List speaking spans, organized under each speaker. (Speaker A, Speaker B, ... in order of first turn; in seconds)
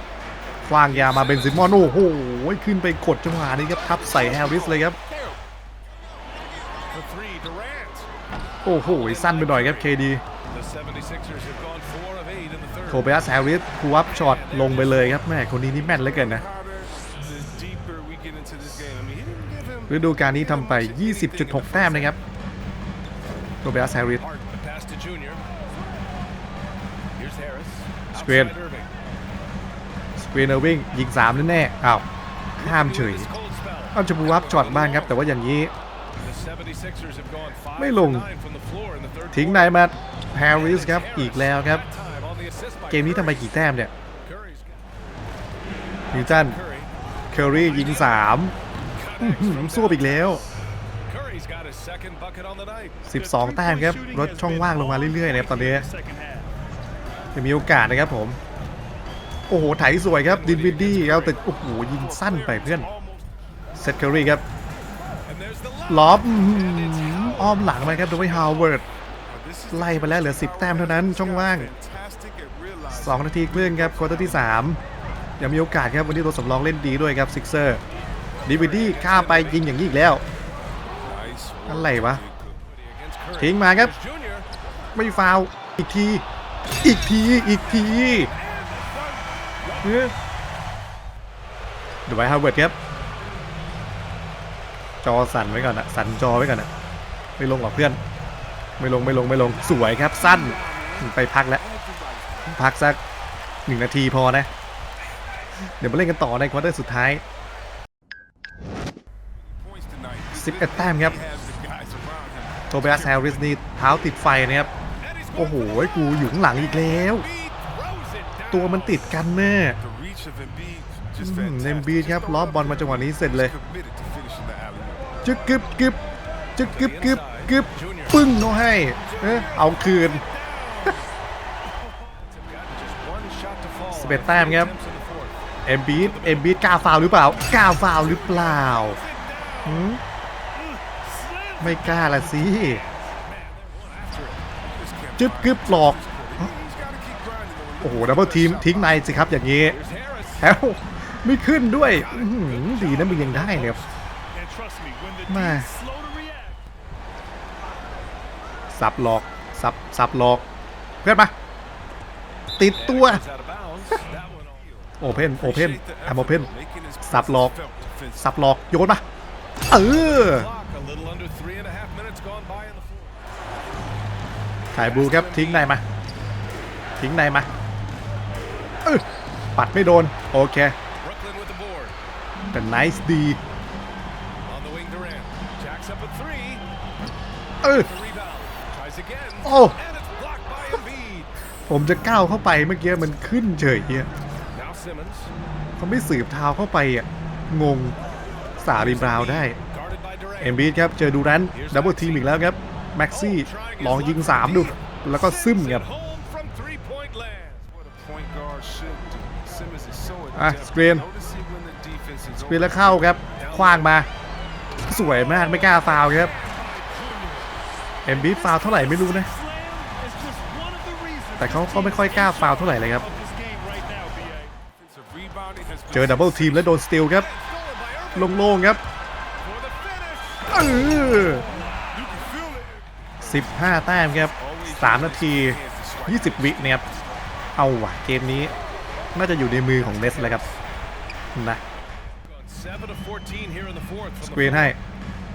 Speaker A: 0.6-5.0, 8.6-10.2, 12.9-16.4, 19.9-22.2, 23.6-24.2, 28.1-28.5, 30.2-32.0, 32.6-33.3, 33.9-35.7, 37.8-38.3, 39.3-41.9, 42.9-43.9, 46.1-46.6, 47.3-48.5, 49.2-50.4, 53.0-55.9, 57.3-58.4, 59.5-62.9, 63.8-64.4, 65.9-68.8, 69.7-71.7, 72.9-74.8, 75.4-77.8, 78.5-80.2, 81.7-82.2, 83.4-83.9, 84.9-86.2, 86.8-88.3, 89.8-90.1, 92.1-92.7, 95.0-96.7, 97.4-98.0, 98.8-101.6, 102.5-103.0, 103.7-104.5, 105.8-107.2, 110.3-111.2, 112.7-114.7, 115.3-117.3, 118.5-119.8, 121.2-123.5, 125.2-126.0, 126.6-130.2, 133.9-134.7, 135.7-139.0, 139.6-140.0, 141.6-142.8, 145.2-146.5, 147.8-149.8, 150.4-153.8, 155.3-155.7, 158.7-160.4, 161.0-161.3, 162.6-163.2, 165.0-166.5, 167.0-167.5, 168.2-169.0, 169.7-170.5, 174.7-175.8, 177.0-177.5, 179.6-180.8, 182.5-183.4, 187.6-187.9, 189.4-189.8, 191.7-194.1, 195.8-197.9, 198.6-199.6, 200.4-205.8, 210.3-211.1, 212.3-214.1, 214.9-216.3, 218.0-219.3, 221.4-223.1, 225.9-227.3, 228.1-228.8, 230.5-231.4, 233.2-236.8, 237.6-238.5, 239.1-240.4, 241.3-241.6, 244.2-244.8
Speaker B: 1.1-1.6, 6.8-8.1, 8.8-9.9, 10.5-13.0, 16.4-22.1, 24.2-25.4, 27.1-28.9, 32.6-35.0, 36.2-39.7, 40.5-43.4, 44.2-44.8, 46.1-46.9, 47.6-48.1, 48.9-50.4, 51.1-56.4, 60.3-61.5, 62.3-63.2, 65.3-68.8, 69.3-74.2, 78.5-79.7, 81.0-84.5, 88.3-89.9, 101.9-102.2, 109.6-112.6, 115.0-115.9, 116.8-119.0, 119.9-125.0, 126.8-128.1, 129.1-129.5, 130.3-131.0, 131.9-135.3, 138.3-139.7, 141.3-141.6, 142.4-148.5, 149.7-150.4, 152.1-156.5, 162.8-164.7, 165.6-168.2, 169.9-173.1, 175.0-175.6, 181.0-181.9, 184.4-186.6, 187.9-191.3, 194.5-195.3, 198.8-200.4, 201.5-202.3, 203.1-204.7, 205.3-213.7, 216.4-217.5, 218.5-222.5, 223.1-226.6, 227.3-228.2, 229.4-230.6, 231.9-232.8, 234.4-236.5, 240.0-240.5, 242.2-244.7